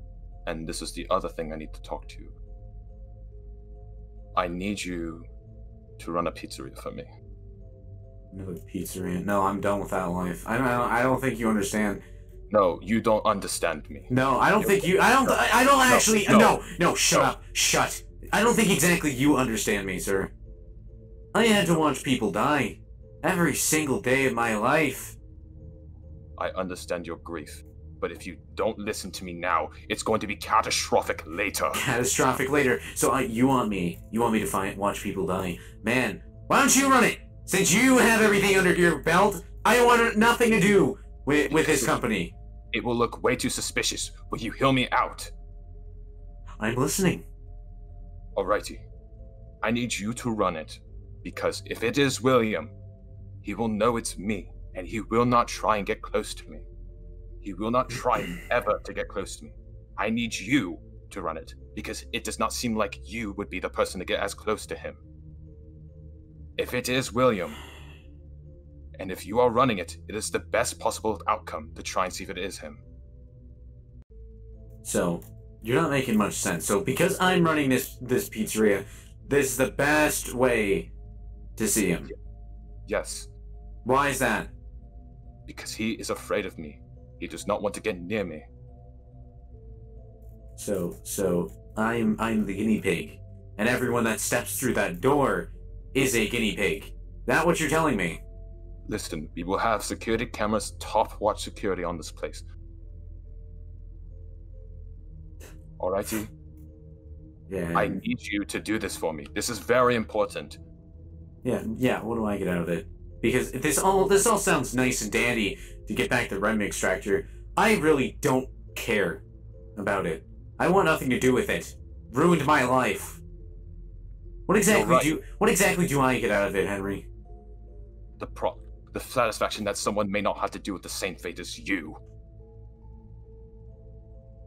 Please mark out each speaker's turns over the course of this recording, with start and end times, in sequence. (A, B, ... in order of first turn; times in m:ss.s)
0:00.4-0:02.4 A
0:04.4-0:05.3 A
0:06.0-0:07.1 A
0:08.3-0:12.0 B
0:12.5-0:16.6 A
0:14.1-0:20.3 B
0:21.3-0:25.2 B
0:26.4-0:31.8 A
0:31.7-0:42.4 B
0:41.5-0:42.0 A
0:42.7-0:45.3 A
0:46.6-0:47.2 B
0:48.4-0:48.8 A
0:49.6-0:52.8 A
0:53.4-0:56.7 A
0:57.4-1:05.0 A
1:06.6-1:07.6 A
1:09.0-1:12.8 A
1:14.8-1:20.9 B
1:21.6-1:22.1 B
1:22.9-1:23.3 A
1:23.8-1:24.5 B
1:25.5-1:28.5 A
1:30.6-1:38.2 B
1:38.9-1:42.4 A
1:45.8-1:46.3 A
1:47.5-1:48.0 B
1:47.8-1:50.6 A
1:51.4-1:59.2 B
1:59.8-2:03.2 B
2:04.5-2:07.1 B
2:04.6-2:05.2 A
2:08.2-2:12.0 A